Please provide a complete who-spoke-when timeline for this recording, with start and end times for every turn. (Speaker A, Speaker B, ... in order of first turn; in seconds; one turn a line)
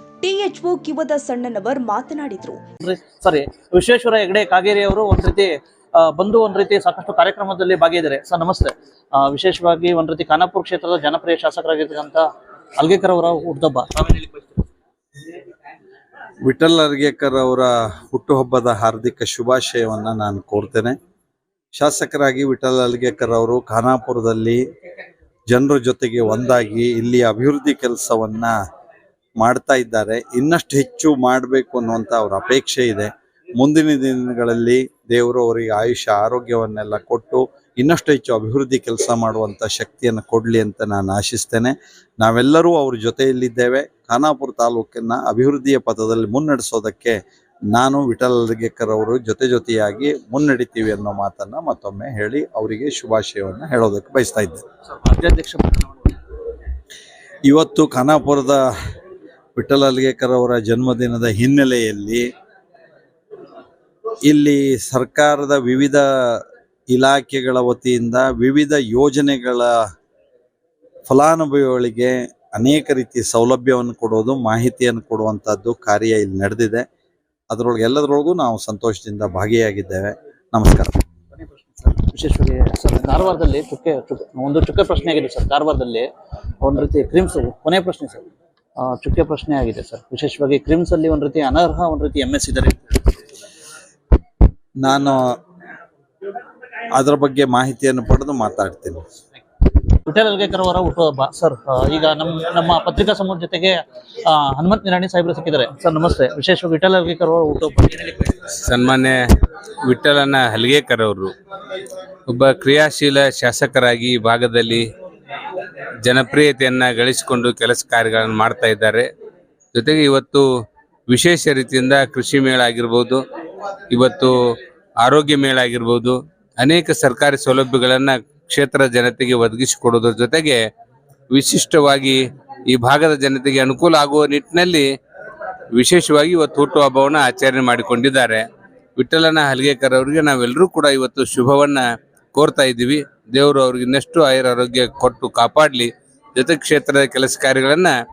Speaker A: 0.2-2.6
Speaker B: 2.8-12.2
Speaker B: 12.8-14.6
Speaker C: 16.4-20.9
Speaker C: 21.7-24.6
Speaker C: 25.5-28.5
Speaker C: 29.4-47.2
Speaker C: 47.7-54.6
Speaker B: 54.9-56.1
Speaker C: 57.5-58.6
Speaker C: 59.5-62.2
Speaker C: 64.3-66.4
Speaker C: 66.9-69.7
Speaker C: 71.1-76.8
Speaker C: 77.5-81.0
Speaker B: 81.4-86.1
Speaker B: 86.6-88.3
Speaker B: 88.8-93.1
Speaker C: 94.8-95.2
Speaker C: 96.9-99.0
Speaker B: 100.0-108.3
Speaker D: 108.6-109.2
Speaker D: 109.8-111.3
Speaker D: 112.3-114.8
Speaker D: 116.0-119.0
Speaker D: 119.7-120.4
Speaker D: 121.1-123.2
Speaker D: 123.9-124.3
Speaker D: 125.0-130.6
Speaker D: 131.3-134.8
Speaker D: 135.7-138.4
Speaker D: 139.0-147.9